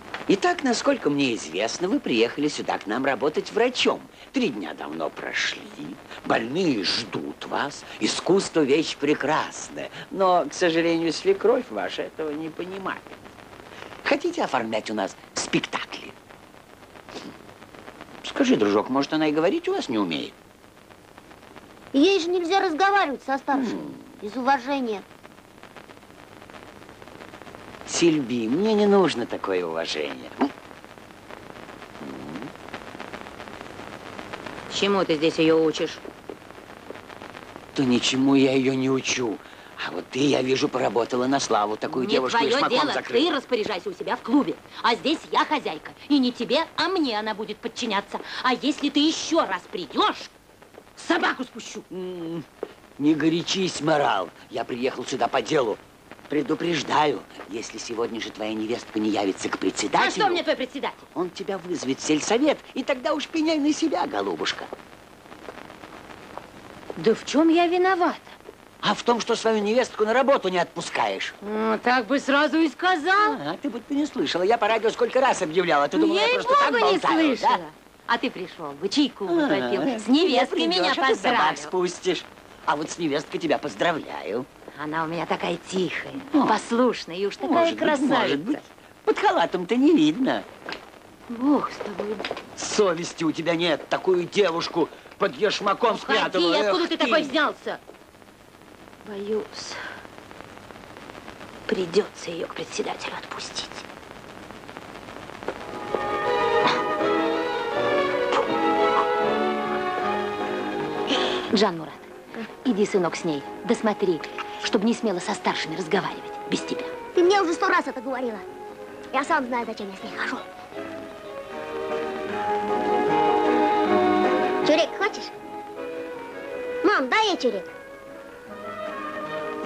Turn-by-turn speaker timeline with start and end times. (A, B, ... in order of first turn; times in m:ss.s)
0:00.3-0:13.4 A
0:14.0-0:16.2 A
0:18.2-0:20.4 A
0:21.9-0:25.0 B
0:23.5-0:24.2 A
0:27.9-0:30.5 A
0:32.0-0:32.5 A
0:34.7-0:36.0 C
0:37.7-0:43.3 A
0:41.9-0:50.3 C
0:51.0-0:51.8 C
0:51.9-0:52.5 A
0:53.0-1:00.4 A
1:00.0-1:01.1 C
1:01.1-1:04.7 A
1:07.0-1:08.4 C
1:08.8-1:11.4 A
1:11.4-1:13.4 C
1:13.2-1:17.6 A
1:15.9-1:21.7 C
1:19.3-1:24.5 A
1:24.8-1:28.6 C
1:26.3-1:26.6 A
1:27.4-1:30.5 A
1:31.3-1:32.3 C
1:32.6-1:37.3 A
1:35.9-1:37.8 C
1:39.0-1:39.8 C
1:41.7-1:43.9 C
1:51.5-1:56.9 C
1:57.2-1:58.4 B
1:59.1-2:00.5 B
2:04.6-2:05.3 B
2:06.8-2:07.7 B